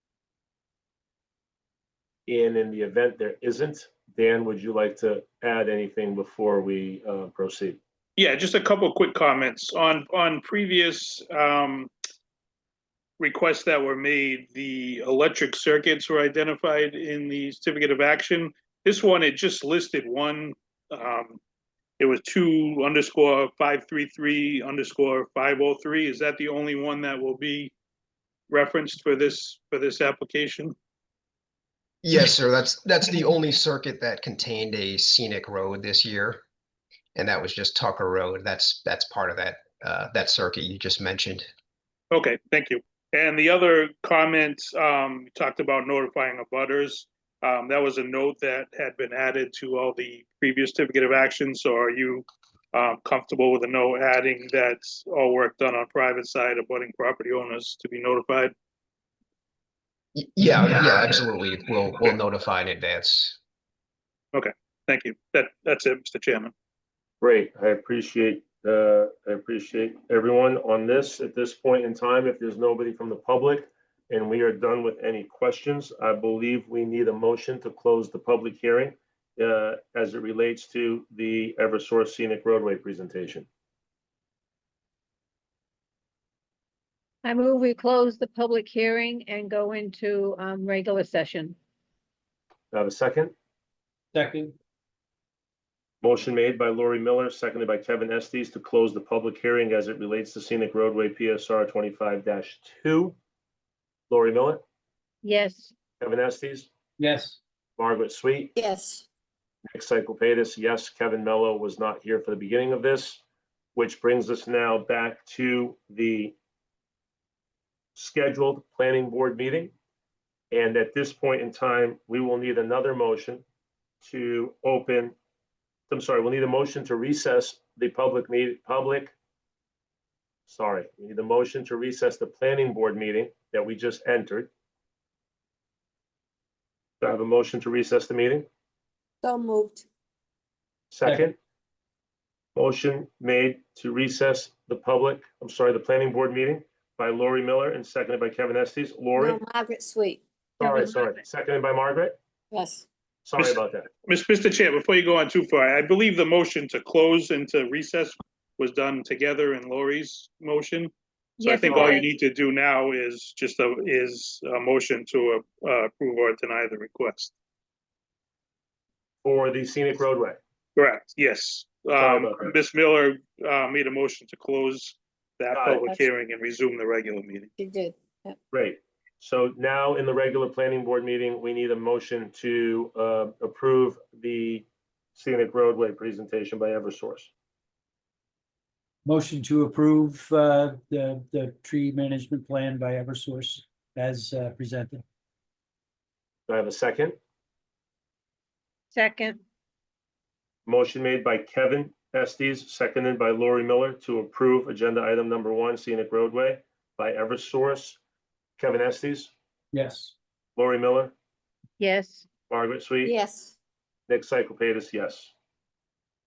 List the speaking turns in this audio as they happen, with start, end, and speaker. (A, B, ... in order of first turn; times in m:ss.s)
0:02.3-0:07.8 A
0:08.2-0:11.9 B
0:13.2-0:21.4 B
0:22.0-0:27.7 B
0:28.5-0:30.7 B
0:32.0-0:36.4 C
0:37.1-0:41.5 C
0:42.1-0:58.5 B
1:00.2-1:03.4 C
1:04.3-1:06.5 B
1:07.2-1:23.5 A
1:27.2-1:31.6 D
1:32.7-1:33.3 A
1:34.1-1:34.5 E
1:36.0-1:43.2 A
1:44.1-1:44.6 A
1:45.2-1:45.7 D
1:46.0-1:46.7 A
1:47.0-1:47.4 E
1:47.8-1:48.5 A
1:48.5-1:49.0 F
1:49.7-1:53.2 A
1:53.7-1:56.3 A
1:58.0-1:59.7 A
2:00.5-2:03.4 A
2:04.0-2:05.1 A
2:05.9-2:09.1 A
2:10.5-2:14.5 A
2:17.0-2:18.5 A
2:19.2-2:19.8 F
2:20.9-2:21.4 A
2:21.0-2:21.3 E
2:22.5-2:29.4 A
2:29.1-2:30.2 F
2:30.6-2:32.2 A
2:32.5-2:32.8 F
2:33.2-2:33.9 A
2:34.1-2:40.9 B
2:41.4-2:42.1 D
2:41.4-2:47.3 B
2:41.7-2:42.0 A
2:49.2-2:50.4 A
2:50.8-2:57.5 B
2:52.0-2:52.5 A
2:55.5-2:55.9 A
2:57.6-2:58.4 F
2:58.5-3:07.3 A
3:09.0-3:15.0 E
3:16.5-3:17.2 A
3:18.9-3:19.4 D
3:20.6-3:28.0 A
3:28.6-3:29.3 A
3:29.7-3:30.1 E
3:30.6-3:31.1 A
3:31.8-3:32.3 D
3:32.5-3:33.1 A
3:33.0-3:33.6 F
3:34.1-3:35.3 A